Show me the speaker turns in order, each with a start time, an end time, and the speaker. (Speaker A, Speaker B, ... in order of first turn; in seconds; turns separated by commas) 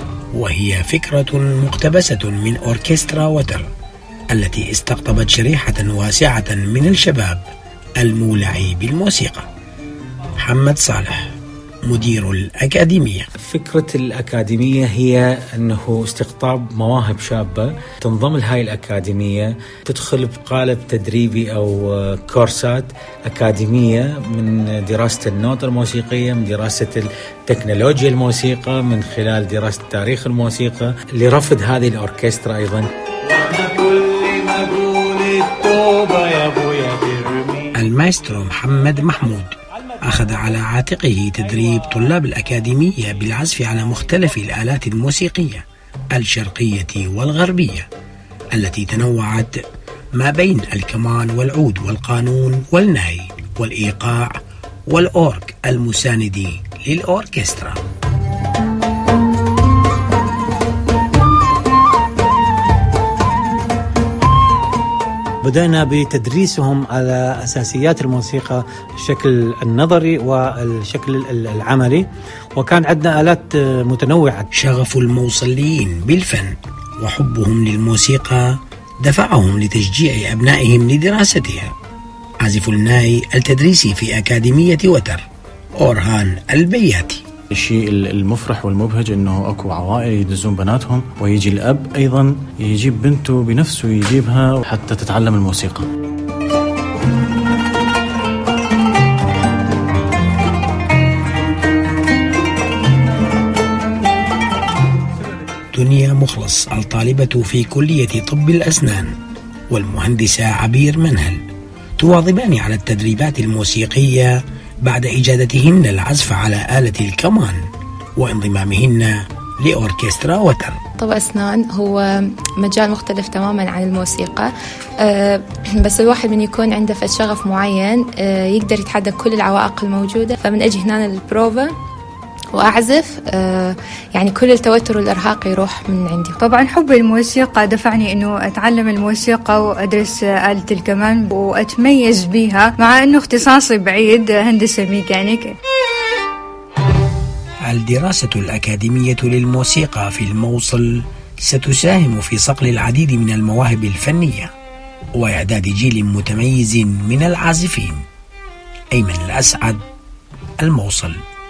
Speaker A: 0.3-3.7, Speaker A: 4.3-7.4, Speaker A: 8.0-9.5, Speaker A: 10.4-11.3, Speaker A: 11.9-13.3, Speaker B: 13.4-37.7, Speaker A: 37.8-47.9, Speaker A: 48.5-49.5, Speaker A: 50.1-57.8, Speaker C: 65.4-74.5, Speaker A: 74.5-81.7, Speaker A: 82.4-85.2, Speaker A: 85.8-87.2, Speaker D: 87.5-95.9, Speaker A: 105.7-109.1, Speaker A: 109.7-111.4, Speaker A: 112.0-117.6, Speaker A: 118.2-120.8, Speaker E: 121.0-131.7, Speaker E: 132.5-136.4, Speaker F: 136.4-145.6, Speaker A: 147.7-154.5, Speaker A: 155.2-158.0, Speaker A: 158.9-159.8, Speaker A: 160.6-161.2